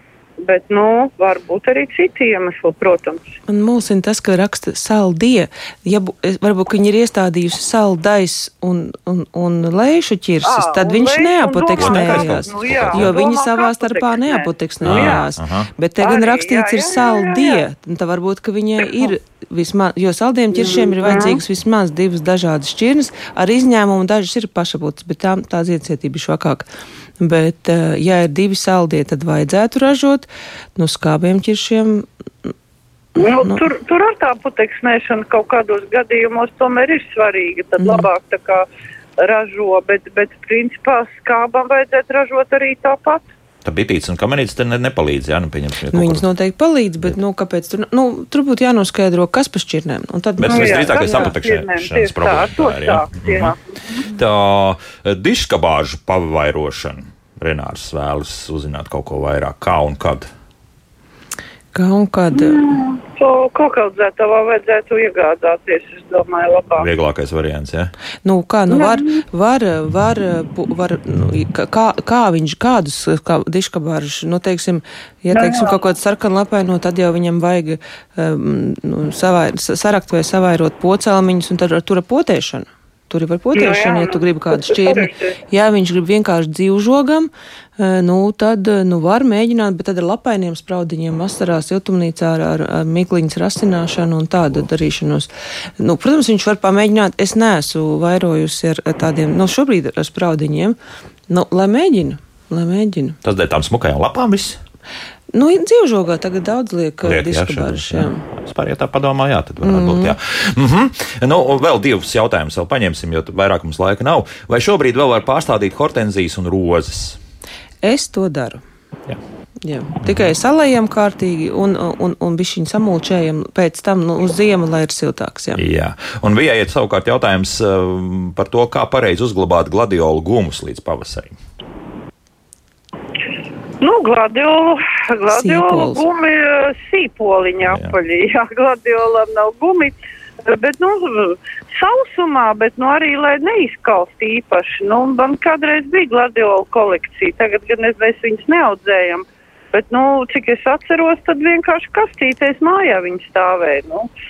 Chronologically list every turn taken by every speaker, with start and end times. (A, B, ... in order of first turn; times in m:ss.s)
0:00.4-0:03.3 A
0:03.5-0:26.6 B
0:10.4-0:15.2 A
0:11.8-0:13.1 C
0:14.8-0:15.7 C
0:16.0-0:17.6 A
0:20.6-0:21.4 A
0:27.2-0:32.5 B
0:33.2-0:33.6 B
0:33.2-0:38.6 A
0:37.8-0:38.1 B
0:39.2-0:43.2 A
0:43.6-0:46.3 C
0:45.9-0:51.3 B
0:50.4-0:53.5 C
0:50.4-0:53.6 A
0:54.1-1:00.3 C
1:01.7-1:02.6 B
1:02.4-1:06.9 A
1:06.8-1:07.9 C
1:08.2-1:35.3 B
1:08.8-1:09.2 A
1:15.3-1:15.8 A
1:23.5-1:25.3 A
1:35.8-1:40.8 B
1:41.3-1:43.2 B
1:43.2-1:44.6 C
1:45.3-1:48.2 B
1:47.0-1:57.2 C
1:49.6-1:50.1 B
1:57.8-1:58.6 B
1:59.6-2:05.6 B
2:00.0-2:00.3 C
2:05.5-2:11.4 C
2:13.8-2:34.1 A
2:15.3-2:16.0 B
2:17.6-2:17.9 C